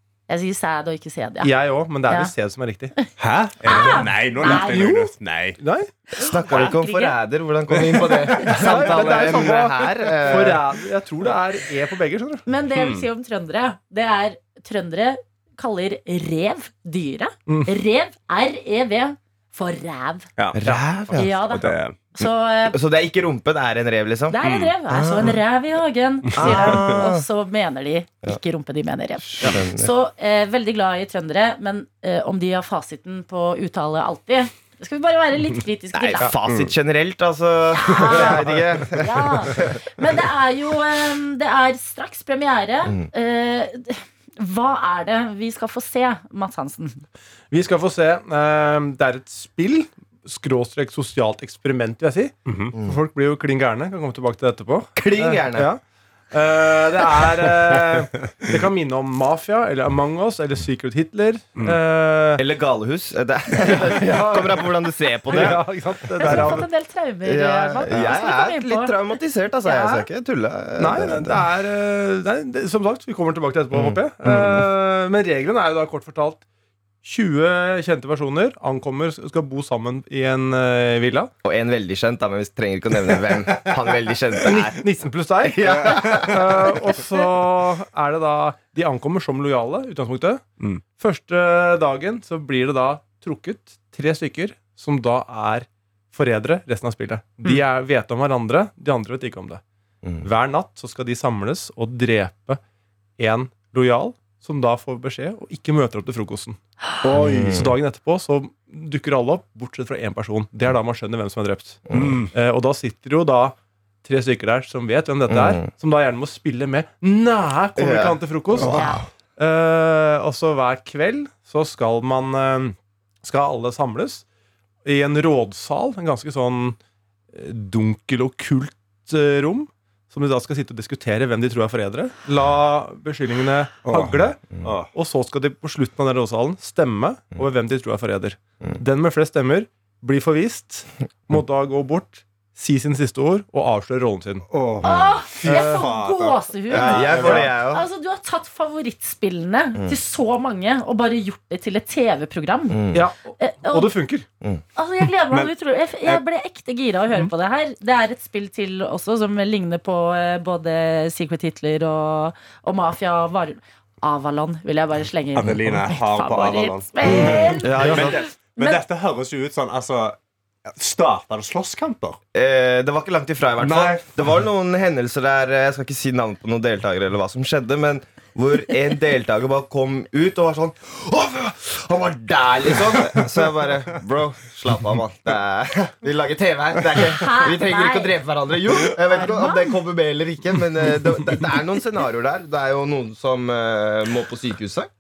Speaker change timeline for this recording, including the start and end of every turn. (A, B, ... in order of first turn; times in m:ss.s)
0:00.3-0:01.5 A
0:01.4-0:02.9 B
0:02.1-0:02.3 A
0:03.2-0:05.6 C
0:03.6-0:05.1 A
0:04.5-0:05.0 B
0:05.6-0:05.9 B
0:06.1-0:10.8 D
0:06.2-0:07.1 A
0:08.4-0:12.4 B
0:12.5-0:20.3 A
0:12.8-0:13.1 C
0:17.5-0:17.7 B
0:20.4-0:22.0 C
0:20.6-0:21.5 D
0:20.6-0:21.2 B
0:21.2-0:22.8 A
0:22.7-0:24.4 D
0:24.3-0:36.3 A
0:24.4-0:24.7 C
0:24.9-0:25.4 D
0:26.4-0:27.3 D
0:29.3-0:29.9 D
0:35.9-0:39.8 D
0:36.4-0:36.7 C
0:37.7-0:47.0 A
0:38.0-0:38.6 B
0:47.5-0:55.8 B
0:52.5-0:52.7 C
0:55.0-0:55.7 D
0:56.3-1:02.4 B
1:02.4-1:06.6 D
1:03.6-1:04.6 B
1:05.3-1:06.6 B
1:06.2-1:09.0 A
1:07.2-1:11.5 D
1:09.6-1:10.0 A
1:10.8-1:16.4 B
1:13.7-1:14.6 D
1:17.0-1:21.3 B
1:21.4-1:24.8 D
1:24.4-1:39.6 B
1:25.5-1:26.8 D
1:25.6-1:26.3 C
1:40.0-1:40.3 D
1:40.2-1:42.6 B
1:43.2-1:46.6 B
1:47.0-1:47.7 C
1:47.2-1:47.8 D
1:47.5-2:04.2 B
1:51.9-1:52.2 D
1:51.9-1:52.3 C
1:55.3-1:55.7 D
1:57.8-1:59.0 D
2:04.8-2:06.8 B
2:07.3-2:24.5 B
2:13.9-2:14.9 C
2:24.5-2:27.5 C
2:24.8-2:32.8 A
2:26.7-2:27.9 D
2:26.8-2:27.5 B
2:32.7-2:33.1 D
2:32.9-2:34.3 B
2:33.4-2:33.9 A
2:34.8-2:48.8 A
2:45.4-2:52.2 C
2:47.1-2:48.2 B
2:47.1-2:48.2 D
2:52.3-3:14.9 D
2:53.6-2:54.2 C
3:07.0-3:08.1 A
3:09.1-3:09.7 A